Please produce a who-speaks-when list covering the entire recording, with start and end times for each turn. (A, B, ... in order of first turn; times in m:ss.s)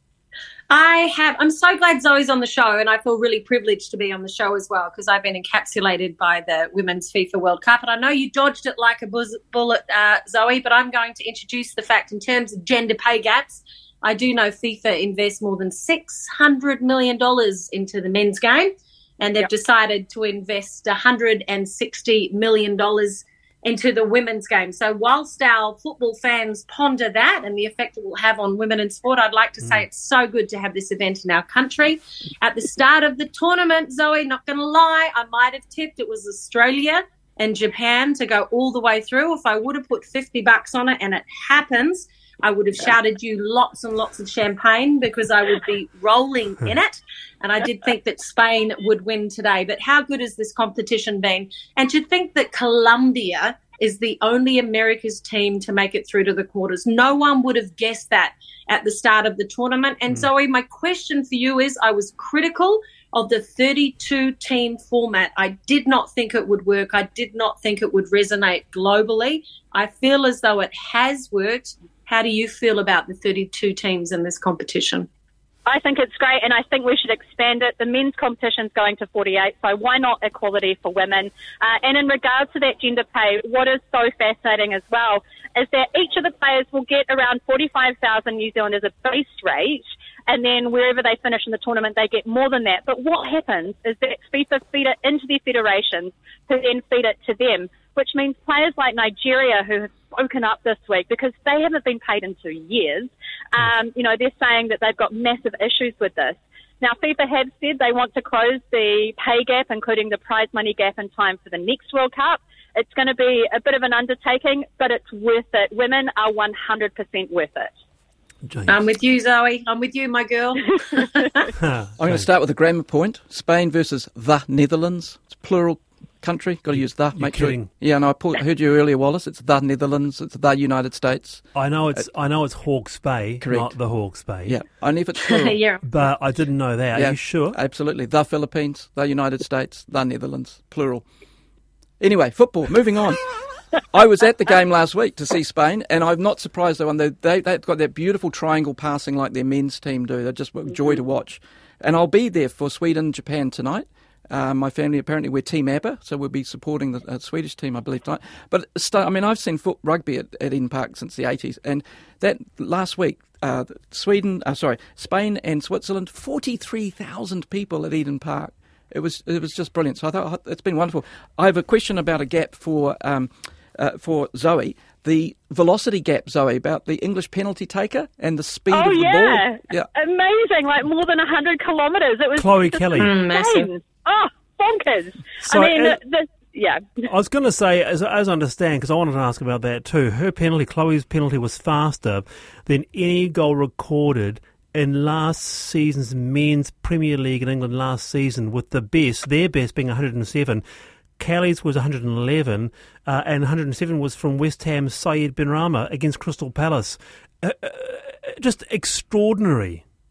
0:00.7-1:15.1 A
1:15.6-1:57.7 B
1:58.4-1:58.8 C
1:58.7-2:01.5 A
2:01.6-2:02.3 C
2:02.0-2:12.0 D
2:06.7-2:07.7 C
2:11.5-2:14.6 C
2:13.4-2:13.7 D
2:14.4-2:15.6 D
2:15.3-2:15.8 A
2:15.8-2:17.6 C
2:16.9-2:21.0 D
2:22.0-2:59.9 D
2:58.7-3:07.1 B
3:02.4-3:03.1 C
3:03.0-3:03.7 A
3:05.4-3:06.0 C
3:07.0-3:20.6 C
3:21.2-3:29.8 C